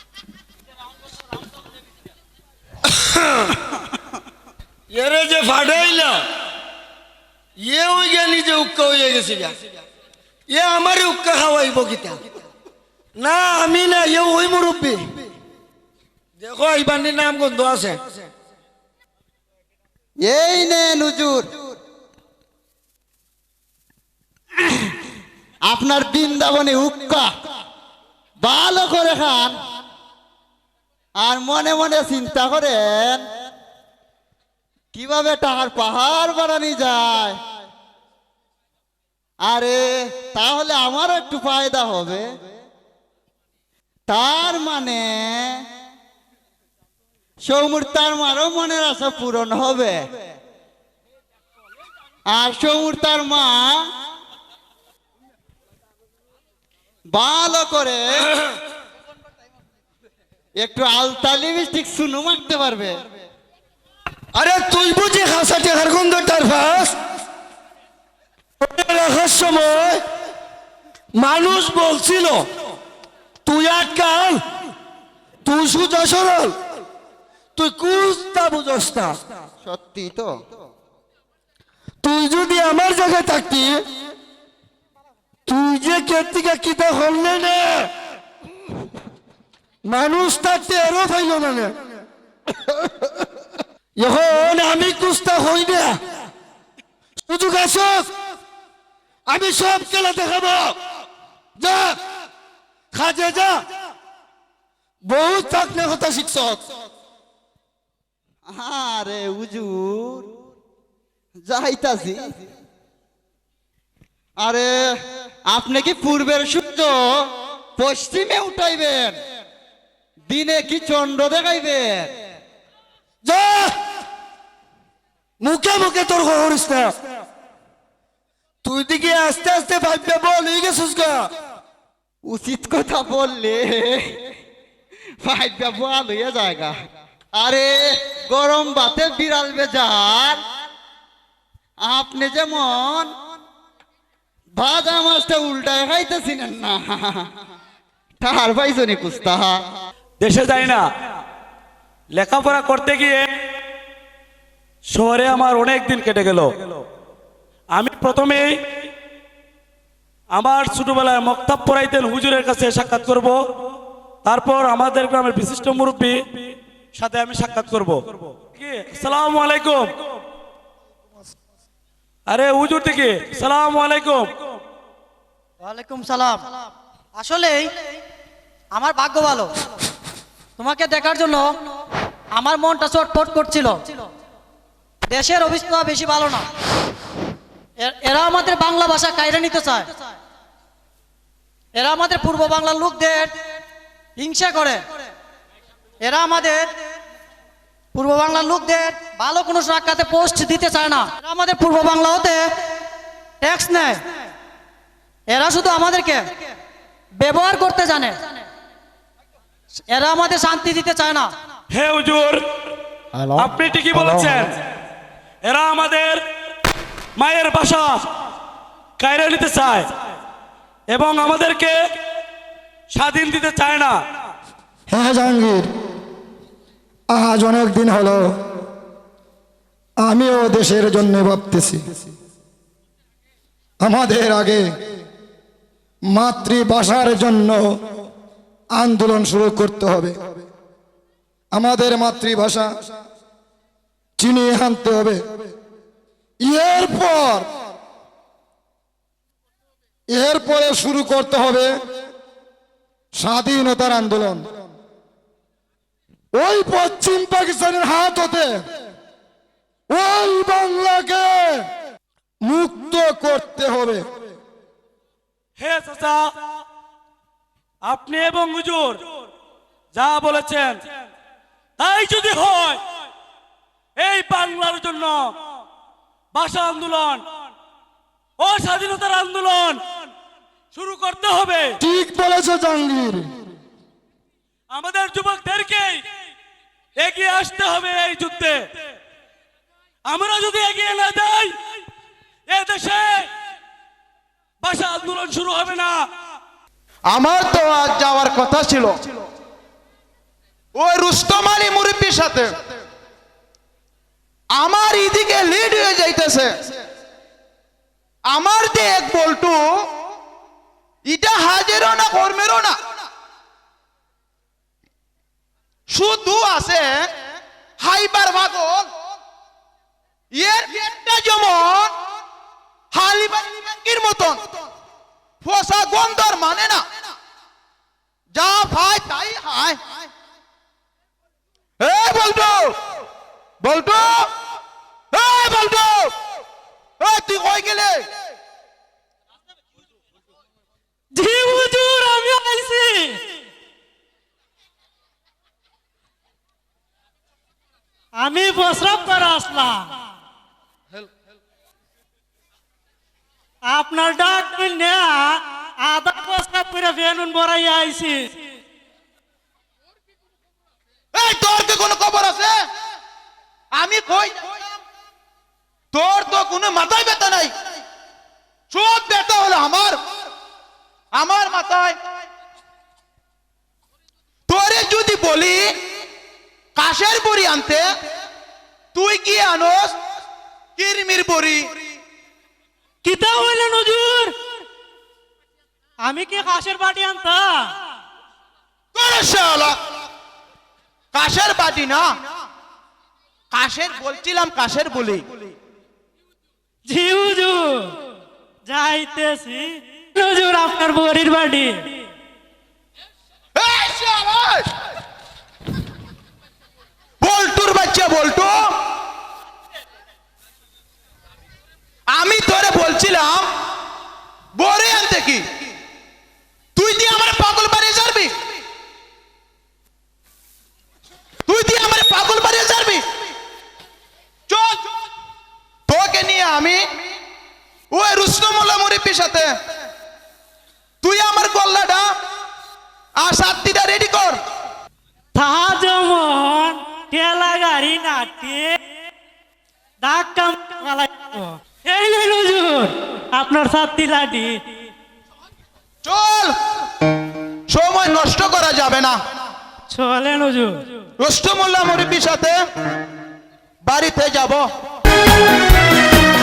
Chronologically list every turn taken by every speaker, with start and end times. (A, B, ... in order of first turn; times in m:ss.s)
0:04.9-0:06.3 A
0:07.6-0:09.6 A
0:10.5-0:12.2 A
0:13.2-0:15.0 A
0:16.4-0:18.3 A
0:20.2-0:21.8 B
0:25.6-0:27.3 B
0:28.4-0:29.6 B
0:31.2-0:33.3 B
0:34.9-0:37.4 B
0:39.4-0:42.5 B
0:44.1-0:45.6 B
0:47.4-0:50.3 B
0:52.3-0:53.8 B
0:57.1-0:58.0 B
1:00.6-1:03.2 B
1:04.3-1:07.0 A
1:08.6-1:10.0 A
1:11.2-1:12.5 A
1:13.4-1:14.4 A
1:15.4-1:16.6 A
1:17.6-1:19.2 A
1:19.6-1:20.4 B
1:22.0-1:23.9 A
1:25.5-1:27.9 A
1:29.9-1:31.8 A
1:34.0-1:36.0 A
1:37.2-1:38.1 A
1:39.3-1:40.8 A
1:41.6-1:42.0 A
1:42.9-1:43.7 A
1:45.0-1:46.6 A
1:48.5-1:50.3 B
1:51.4-1:52.5 B
1:54.4-1:54.8 B
1:55.5-1:59.2 B
2:00.3-2:02.1 B
2:03.2-2:03.8 A
2:05.4-2:07.0 A
2:08.6-2:11.3 A
2:12.2-2:14.2 B
2:15.2-2:16.7 B
2:17.3-2:20.4 B
2:21.8-2:23.1 B
2:24.5-2:27.3 B
2:28.2-2:29.6 B
2:30.2-2:30.8 C
2:32.1-2:33.2 C
2:34.9-2:36.8 C
2:37.8-2:38.6 C
2:40.4-2:43.4 C
2:44.2-2:50.0 C
2:52.3-2:54.6 C
2:55.6-2:57.8 D
2:58.7-2:59.6 D
3:00.6-3:01.7 D
3:02.3-3:04.1 D
3:05.1-3:06.5 D
3:07.8-3:10.0 D
3:11.7-3:13.4 D
3:14.2-3:14.9 D
3:16.0-3:16.7 D
3:17.9-3:22.5 D
3:23.4-3:24.1 D
3:25.3-3:26.4 D
3:27.2-3:28.4 D
3:29.9-3:31.3 D
3:31.7-3:32.4 C
3:33.4-3:34.6 C
3:35.4-3:36.2 C
3:37.2-3:38.0 C
3:39.0-3:39.9 C
3:40.9-3:41.8 C
3:42.9-3:44.0 C
3:44.9-3:45.7 E
3:47.1-3:48.3 E
3:50.0-3:51.8 E
3:53.8-3:54.7 E
3:56.1-3:57.6 E
3:58.8-4:00.4 E
4:01.5-4:02.8 E
4:04.2-4:05.2 E
4:06.4-4:07.5 E
4:10.1-4:11.7 E
4:13.2-4:14.5 E
4:16.4-4:18.6 E
4:19.9-4:21.6 E
4:22.4-4:24.1 E
4:25.6-4:26.3 C
4:27.9-4:29.0 C
4:30.0-4:30.8 C
4:31.8-4:32.8 C
4:34.0-4:35.3 C
4:36.3-4:37.3 C
4:38.4-4:40.1 C
4:40.7-4:41.8 C
4:41.8-4:43.3 E
4:44.7-4:46.0 C
4:47.0-4:48.6 C
4:50.1-4:51.6 C
4:52.5-4:53.3 C
4:54.6-4:56.0 C
4:57.1-4:59.1 F
5:00.8-5:02.6 F
5:04.6-5:06.7 F
5:08.3-5:09.6 F
5:11.1-5:13.0 F
5:15.9-5:17.1 F
5:17.8-5:18.9 F
5:20.3-5:21.9 F
5:22.9-5:24.4 F
5:25.4-5:27.1 F
5:28.3-5:30.1 F
5:31.8-5:32.7 F
5:33.6-5:34.3 F
5:35.1-5:36.1 F
5:37.0-5:38.1 F
5:41.1-5:43.2 G
5:48.2-5:49.9 G
5:53.7-5:58.4 G
6:01.1-6:02.6 F
6:03.7-6:04.7 F
6:05.9-6:07.5 F
6:08.7-6:10.0 F
6:11.1-6:12.0 F
6:14.5-6:15.7 F
6:16.8-6:17.9 F
6:18.9-6:20.0 F
6:20.8-6:21.8 F
6:23.0-6:24.4 G
6:26.0-6:27.7 G
6:29.0-6:29.8 F
6:31.1-6:32.1 F
6:33.5-6:35.5 F
6:36.9-6:37.9 G
6:38.7-6:41.9 G
6:43.6-6:44.7 F
6:47.2-6:48.7 F
6:52.1-6:53.5 F
6:54.6-6:55.4 F
6:56.8-6:58.3 F
7:01.5-7:03.0 F
7:04.5-7:04.8 F
7:05.9-7:07.0 F
7:07.9-7:09.5 F
7:11.0-7:12.1 F
7:13.2-7:14.4 F
7:15.4-7:18.8 G
7:20.0-7:24.6 G
7:26.0-7:26.5 F
7:27.7-7:29.2 F
7:29.9-7:30.9 G
7:31.2-7:32.6 F
7:33.8-7:34.6 F